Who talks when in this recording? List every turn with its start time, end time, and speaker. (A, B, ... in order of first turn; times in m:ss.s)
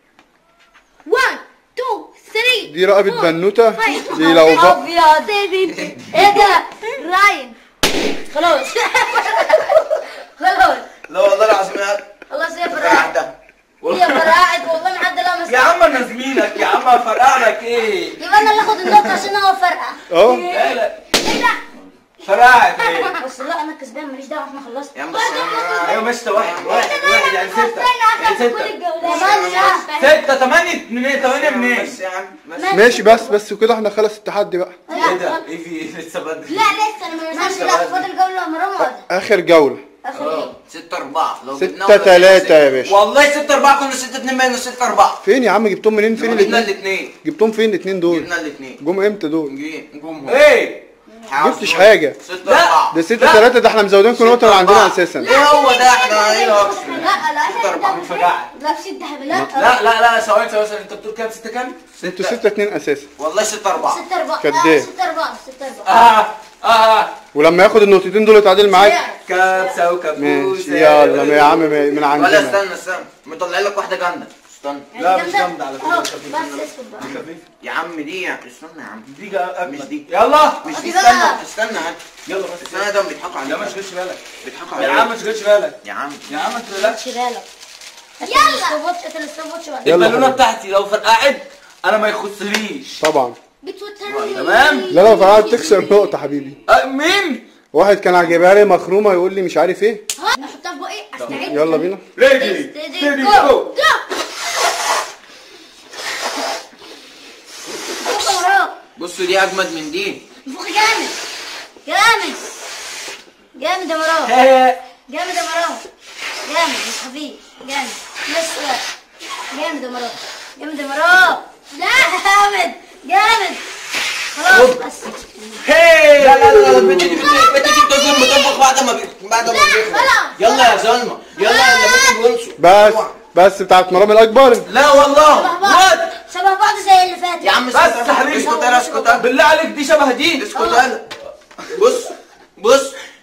0:01.0-0:07.6 A
0:02.6-0:04.8 B
0:03.8-0:05.4 C
0:05.9-0:06.2 D
0:06.1-0:06.6 C
0:08.3-0:10.8 C
0:11.1-0:12.1 D
0:12.3-0:13.1 C
0:12.7-0:13.3 D
0:13.8-0:15.8 C
0:13.8-0:14.4 E
0:15.5-0:19.3 E
0:18.2-0:20.2 C
0:20.1-0:20.4 B
0:20.3-0:21.6 A
0:20.4-0:21.0 E
0:22.2-0:23.2 E
0:22.8-0:23.2 A
0:23.2-0:25.8 C
0:24.9-0:27.0 D
0:25.1-0:26.0 A
0:25.8-0:28.8 E
0:26.7-0:30.3 A
0:29.0-0:29.9 C
0:29.0-0:29.7 D
0:30.0-0:32.0 E
0:31.2-0:33.2 D
0:32.6-0:33.4 C
0:32.7-0:34.8 B
0:34.9-0:35.4 C
0:34.9-0:35.3 A
0:35.0-0:36.8 E
0:36.4-0:37.8 A
0:37.3-0:39.1 C
0:37.4-0:38.1 E
0:38.8-0:39.8 B
0:40.0-0:40.5 C
0:40.1-0:45.2 D
0:41.5-0:43.0 B
0:45.2-0:48.3 B
0:46.1-0:47.1 D
0:48.1-0:48.8 D
0:48.8-0:49.5 B
0:49.4-0:50.4 D
0:50.2-0:50.8 E
0:51.2-0:53.0 D
0:51.4-0:52.2 B
0:52.4-0:53.5 E
0:52.9-0:55.4 B
0:54.1-0:58.1 D
0:55.2-0:59.7 A
0:56.4-0:56.7 C
0:57.8-0:58.5 E
0:59.5-1:01.8 E
1:02.0-1:02.4 D
1:02.0-1:03.1 B
1:03.2-1:04.0 D
1:03.8-1:06.1 C
1:04.4-1:04.9 B
1:05.8-1:07.1 E
1:07.3-1:09.0 B
1:08.7-1:09.2 C
1:08.8-1:09.1 A
1:09.2-1:11.8 E
1:10.2-1:12.6 B
1:12.1-1:14.9 D
1:14.9-1:17.2 C
1:14.9-1:17.4 E
1:17.0-1:19.1 D
1:19.1-1:20.7 E
1:19.6-1:20.1 D
1:20.6-1:22.0 D
1:20.7-1:21.4 C
1:22.2-1:22.9 E
1:22.6-1:23.8 D
1:23.4-1:27.0 E
1:24.4-1:25.1 D
1:25.8-1:26.3 D
1:26.7-1:27.5 C
1:28.2-1:28.8 A
1:28.2-1:30.1 C
1:29.8-1:30.4 B
1:29.8-1:33.0 E
1:33.0-1:33.4 B
1:33.6-1:35.8 A
1:34.0-1:34.5 D
1:34.3-1:34.9 E
1:34.9-1:36.6 B
1:35.1-1:36.0 C
1:36.7-1:37.4 E
1:37.7-1:40.0 B
1:40.2-1:41.9 A
1:41.2-1:41.5 E
1:41.3-1:42.0 B
1:42.1-1:43.7 E
1:42.4-1:43.6 C
1:43.2-1:44.0 A
1:48.0-1:48.7 C
1:49.0-1:50.2 D
1:50.4-1:51.2 C
1:51.8-1:52.5 C
1:53.5-1:54.4 C
1:54.2-1:54.8 E
1:55.1-1:55.8 C
1:56.4-1:58.8 C
1:59.5-2:01.4 C
2:01.7-2:02.2 A
2:01.9-2:03.6 C
2:04.3-2:05.6 C
2:04.5-2:04.8 E
2:05.6-2:07.4 E
2:06.2-2:13.1 D
2:07.2-2:08.6 A
2:09.4-2:10.8 A
2:11.4-2:12.2 A
2:12.6-2:14.7 B
2:14.6-2:15.6 D
2:15.3-2:17.6 C
2:15.4-2:16.1 E
2:17.4-2:19.3 D
2:17.7-2:18.6 E
2:18.4-2:19.2 C
2:19.1-2:20.5 E
2:20.4-2:21.0 D
2:20.5-2:20.8 C
2:21.7-2:23.0 D